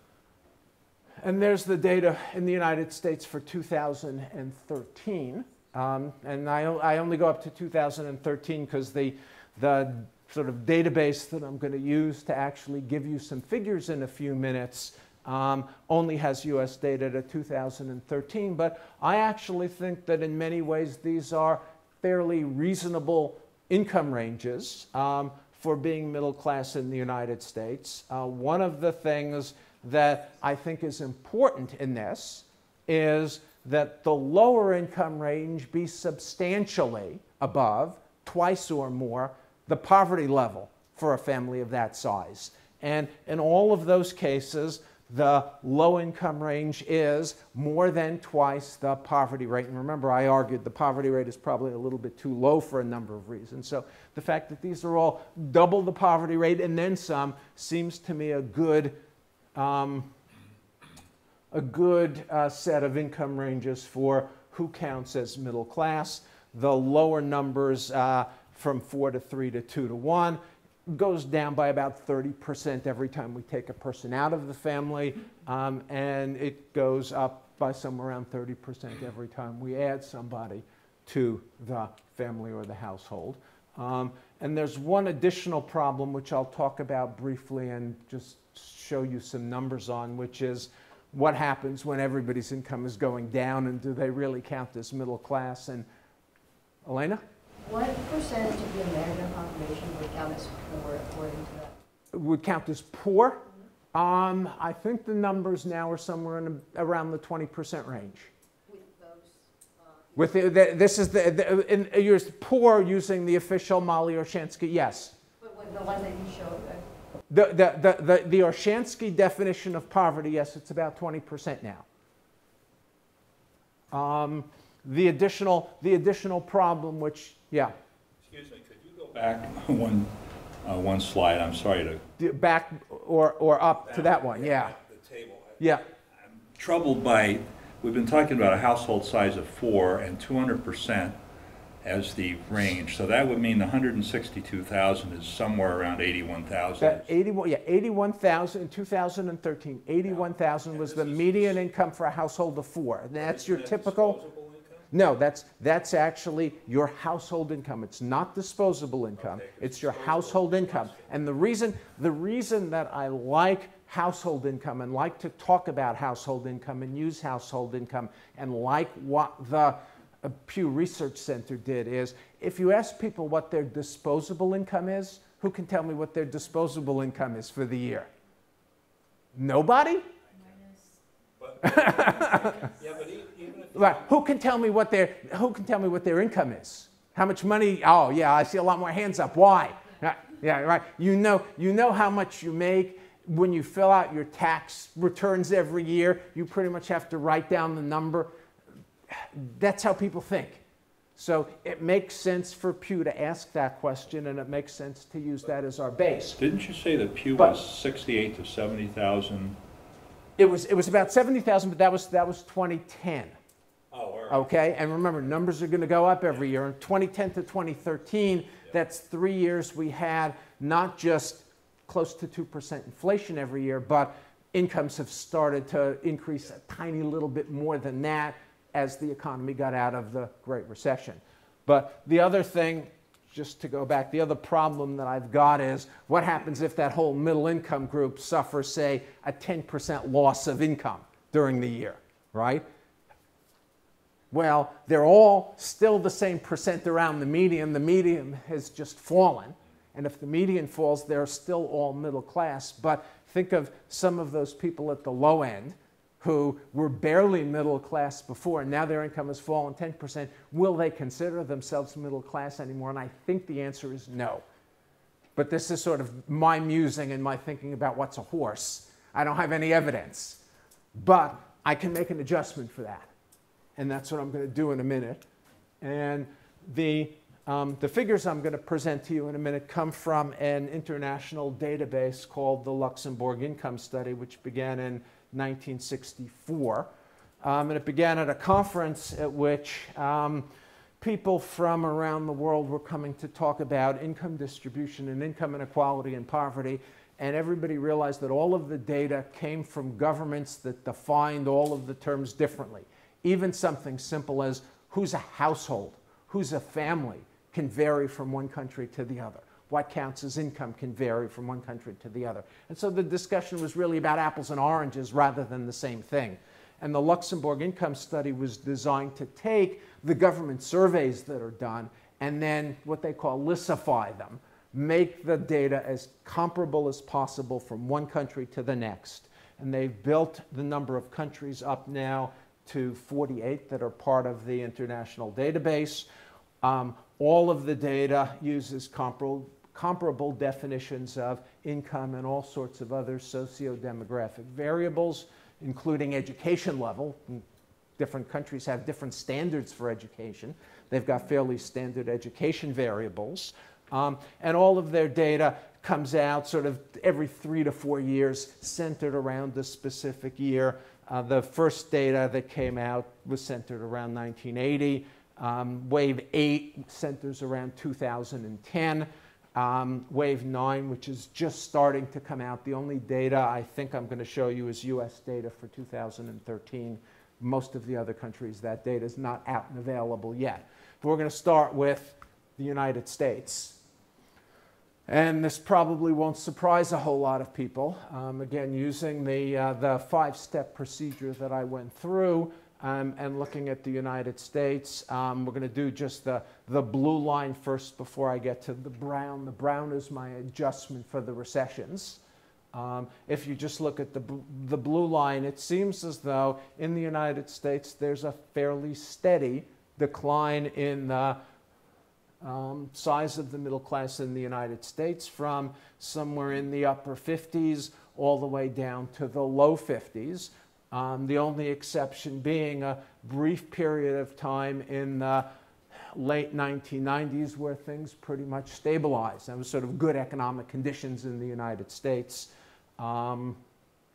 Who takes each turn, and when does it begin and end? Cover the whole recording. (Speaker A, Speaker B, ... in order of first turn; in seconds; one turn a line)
Speaker A: 1.2-59.0
Speaker A: 59.5-60.1
Speaker A: 61.5-95.8
Speaker A: 96.8-97.2
Speaker B: 97.6-101.7
Speaker A: 102.1-108.3
Speaker B: 108.7-110.4
Speaker A: 110.2-115.1
Speaker B: 115.4-116.8
Speaker A: 117.3-121.8
Speaker A: 123.9-127.7
Speaker C: 128.2-130.1
Speaker C: 130.6-132.0
Speaker A: 132.2-134.8
Speaker C: 133.9-135.8
Speaker A: 135.6-135.8
Speaker C: 136.5-141.2
Speaker C: 141.8-147.1
Speaker A: 146.8-154.2
Speaker C: 150.7-151.5
Speaker C: 153.2-154.8
Speaker A: 154.9-178.1
Speaker C: 159.2-161.1
Speaker A: 179.3-180.1
Speaker B: 180.4-180.9
Speaker C: 181.4-184.0
Speaker A: 181.6-182.6
Speaker A: 183.7-198.3
Speaker A: 199.1-200.6
Speaker A: 201.2-206.4
Speaker C: 206.4-209.6
Speaker A: 210.4-213.3
Speaker C: 213.9-214.4
Speaker A: 214.3-242.6
Speaker A: 244.3-264.4
Speaker A: 265.4-270.4
Speaker A: 270.9-273.1
Speaker A: 273.8-275.2
Speaker A: 275.8-286.9
Speaker A: 287.4-290.5
Speaker A: 291.0-336.1
Speaker A: 336.6-347.4
Speaker A: 348.0-383.8
Speaker A: 385.1-402.2
Speaker A: 402.7-411.4
Speaker A: 412.4-425.4
Speaker A: 426.1-433.6